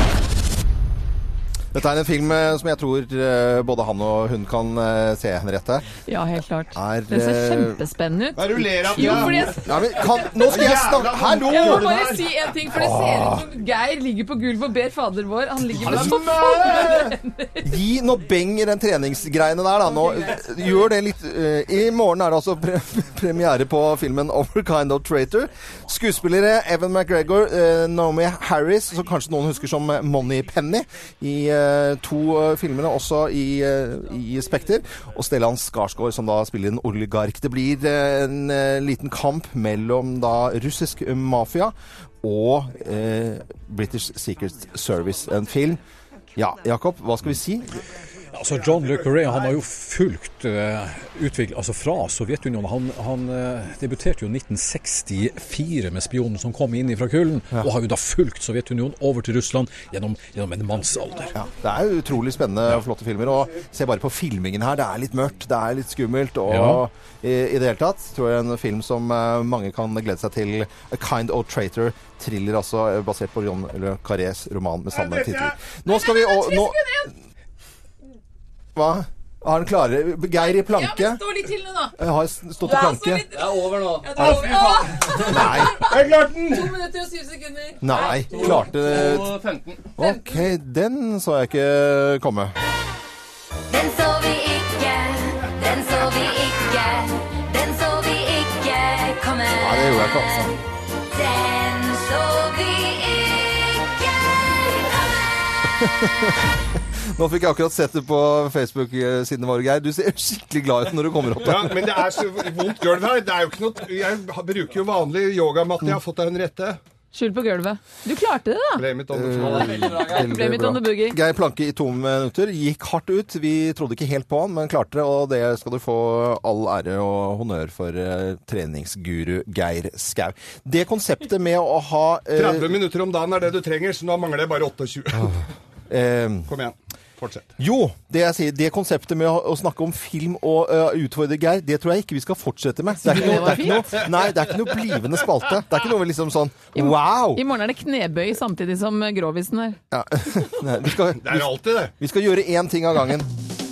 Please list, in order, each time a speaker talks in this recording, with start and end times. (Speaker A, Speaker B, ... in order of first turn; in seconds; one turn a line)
Speaker A: 1.7-5.8
Speaker B: 6.1-10.1
Speaker A: 6.7-7.8
Speaker C: 8.3-12.3
Speaker A: 8.7-11.9
Speaker B: 11.3-17.7
Speaker A: 12.7-13.5
Speaker A: 15.8-16.1
Speaker C: 15.8-17.1
Speaker A: 17.6-45.8
Speaker A: 46.3-47.7
Speaker D: 48.3-61.4
Speaker C: 48.6-48.9
Speaker A: 61.3-77.0
Speaker D: 66.5-66.8
Speaker B: 75.8-77.1
Speaker A: 78.8-81.3
Speaker B: 80.4-82.0
Speaker A: 82.0-83.3
Speaker B: 82.6-88.5
Speaker E: 83.3-85.1
Speaker C: 84.2-85.0
Speaker A: 85.1-85.9
Speaker C: 85.9-86.4
Speaker E: 85.9-86.7
Speaker A: 87.8-89.4
Speaker E: 88.1-89.9
Speaker A: 90.0-92.5
Speaker B: 90.0-90.2
Speaker F: 93.7-105.4
Speaker A: 99.5-100.5
Speaker A: 105.7-106.4
Speaker A: 107.1-112.1
Speaker C: 111.4-116.8
Speaker B: 117.1-118.8
Speaker C: 118.8-120.0
Speaker A: 119.1-132.8
Speaker B: 119.8-121.2
Speaker C: 132.3-135.4
Speaker A: 135.9-136.5
Speaker C: 136.5-137.5
Speaker A: 137.6-147.4
Speaker B: 143.0-144.0
Speaker B: 146.7-149.8
Speaker A: 149.9-153.3
Speaker C: 151.2-151.9